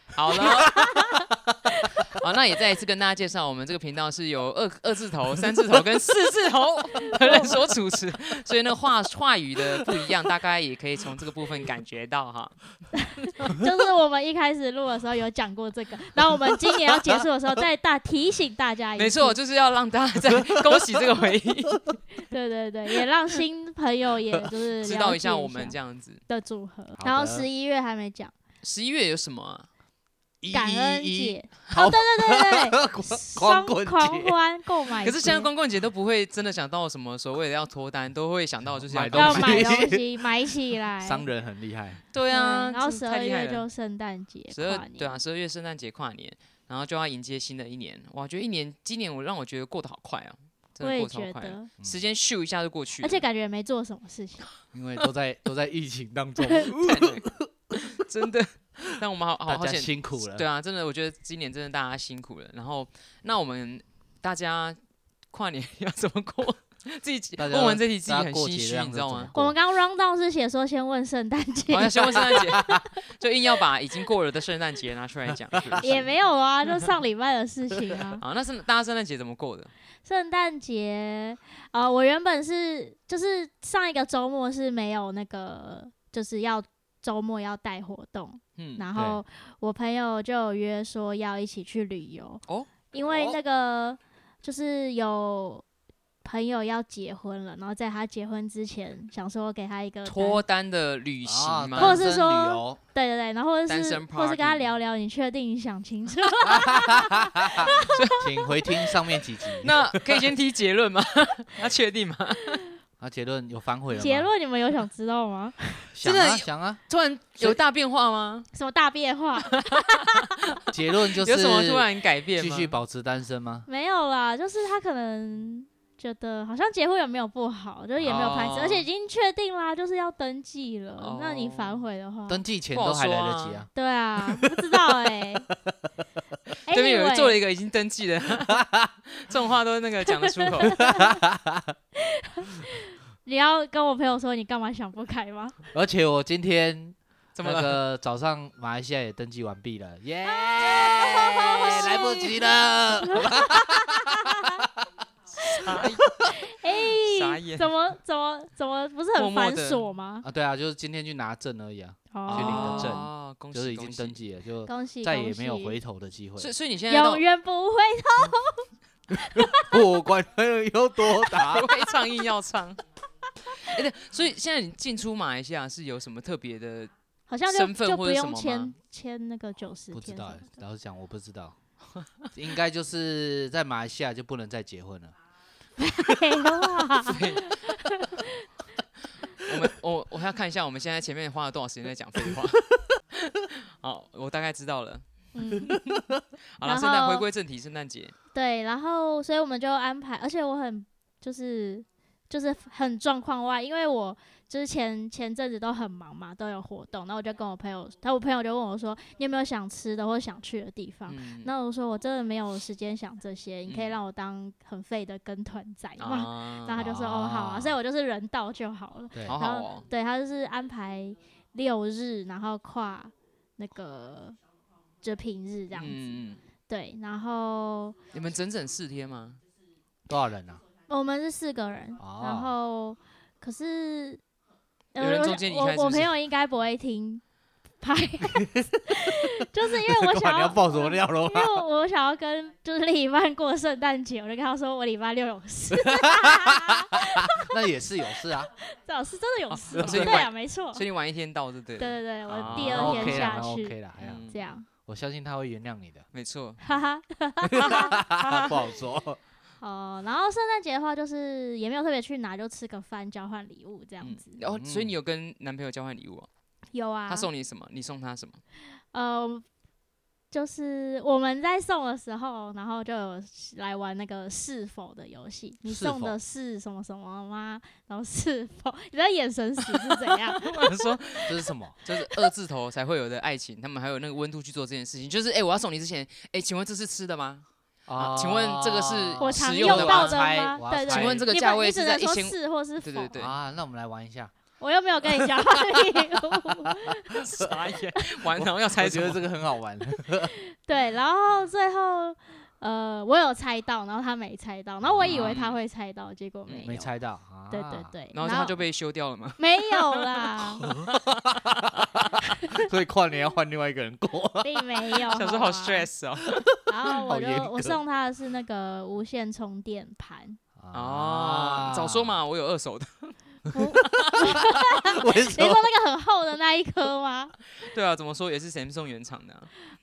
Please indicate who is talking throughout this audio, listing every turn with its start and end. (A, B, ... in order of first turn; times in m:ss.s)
0:00.1-0:00.7 A
0:00.3-0:02.1 B
0:00.7-0:01.3 C
0:02.0-0:12.6 A
0:07.0-0:07.6 C
0:09.7-0:10.1 B
0:13.0-0:19.4 C
0:19.0-0:21.8 A
0:20.2-0:22.0 B
0:22.2-0:25.8 C
0:24.8-0:26.2 A
0:26.3-0:28.3 C
0:27.0-0:27.5 B
0:28.6-0:29.7 A
0:30.4-0:34.4 B
0:30.5-0:35.5 C
0:35.0-0:39.8 A
0:38.8-0:40.2 B
0:39.1-0:41.2 C
0:41.0-0:42.0 B
0:42.1-0:43.6 A
0:42.3-0:45.2 C
0:44.5-0:53.2 A
0:50.8-0:51.7 C
0:53.0-0:54.5 C
0:54.7-0:57.9 B
0:56.7-0:57.3 A
0:57.8-1:04.8 A
0:59.5-1:00.4 B
1:05.3-1:09.3 A
1:07.4-1:09.6 B
1:09.3-1:12.8 C
1:11.7-1:16.1 A
1:12.0-1:12.8 B
1:15.7-1:16.0 B
1:15.8-1:18.2 C
1:18.2-1:19.7 A
1:20.0-1:35.6 C
1:28.6-1:28.8 A
1:28.9-1:29.2 B
1:33.0-1:33.4 B
1:36.2-1:40.4 C
1:40.0-1:42.0 A
1:41.2-1:42.8 B
1:41.8-1:48.8 C
1:43.7-1:44.6 A
1:46.4-1:50.2 B
1:47.9-1:48.2 A
1:49.6-1:52.6 A
1:53.0-1:54.3 B
1:53.9-1:55.9 C
1:55.9-1:56.8 B
1:56.0-1:58.5 A
1:58.5-2:00.1 C
1:59.4-2:02.8 A
2:00.7-2:03.7 B
2:03.6-2:12.4 C
2:08.0-2:08.8 A
2:11.0-2:11.8 A
2:12.3-2:13.7 B
2:12.7-2:13.7 A
2:13.7-2:15.5 C
2:16.7-2:17.4 C
2:16.7-2:20.8 A
2:18.4-2:18.9 B
2:20.4-2:21.1 C
2:20.6-2:21.8 B
2:22.0-2:25.6 C
2:25.7-2:34.8 B
2:27.3-2:27.8 A
2:30.3-2:32.2 C
2:31.7-2:32.4 A
2:33.0-2:34.6 C
2:35.4-2:36.2 A
2:35.7-2:36.3 B
2:36.3-2:40.2 C
2:36.9-2:37.7 A
2:39.2-2:39.9 A
2:40.2-2:46.5 B
2:42.1-2:42.9 C
2:42.3-2:44.2 A
2:44.6-2:45.8 C
2:46.4-2:47.2 A
2:46.9-2:48.6 C
2:49.2-2:49.7 C
2:49.3-2:51.8 B
2:51.3-2:52.8 A
2:53.6-2:56.9 A
2:57.3-3:00.6 C
2:57.5-2:58.7 A
2:59.9-3:01.6 B
3:02.3-3:05.1 B
3:05.8-3:08.4 C
3:06.3-3:06.8 B
3:07.0-3:07.6 A
3:09.4-3:15.0 A
3:15.3-3:15.8 C
3:15.7-3:16.2 B
3:16.6-3:18.1 A
3:16.6-3:17.2 C
3:18.3-3:44.4 C
3:31.1-3:31.5 A
3:33.7-3:34.0 A
3:36.0-3:36.8 A
3:36.8-3:37.8 B
3:39.1-3:39.4 B
3:39.2-3:39.9 A
3:45.0-3:46.0 C
3:45.7-3:46.4 A
3:46.7-3:48.0 C
3:48.1-3:49.4 A
3:50.1-3:50.6 B
3:50.9-3:54.2 C
3:52.0-3:52.5 B
3:54.9-3:57.2 C
3:55.0-3:56.1 A
3:57.8-4:07.5 C
3:58.2-4:01.6 B
4:05.7-4:08.5 B
4:08.0-4:10.8 C
4:09.5-4:13.4 A
4:09.8-4:10.2 B
4:11.8-4:14.7 C
4:12.3-4:14.3 B
4:14.0-4:14.4 A
4:14.8-4:16.0 B
4:16.1-4:16.7 A
4:16.6-4:18.0 C
4:17.5-4:19.2 B
4:17.6-4:18.7 A
4:19.6-4:24.4 C
4:24.0-4:26.3 A
4:24.4-4:25.0 B
4:26.7-4:27.3 C
4:27.1-4:28.4 A
4:28.9-4:29.4 C
4:30.3-4:41.2 C
4:35.6-4:36.2 B
4:39.6-4:41.3 A
4:41.2-4:41.8 B
4:41.8-4:50.2 A
4:47.8-4:51.2 B
4:49.2-4:53.2 C
4:50.9-4:53.4 A
4:53.2-4:54.3 B
4:54.6-4:57.2 C
4:55.7-4:56.4 B
4:57.2-4:59.2 A
4:58.0-4:58.2 C
4:58.3-5:00.3 B
5:00.0-5:06.9 C
5:04.8-5:05.4 B
5:05.0-5:05.6 A
5:06.5-5:06.7 A
5:06.6-5:07.9 B
5:07.5-5:08.6 C
5:08.1-5:10.2 A
5:09.4-5:10.7 C
5:10.6-5:15.1 B
5:10.9-5:11.8 A
5:12.2-5:12.5 C
5:14.4-5:15.9 C
5:15.1-5:16.4 A
5:16.3-5:17.8 B
5:16.6-5:20.4 C
5:20.6-5:22.2 B
5:20.7-5:24.4 A
5:23.5-5:24.3 B
5:23.5-5:27.4 C
5:24.8-5:25.7 B
5:27.6-5:29.5 A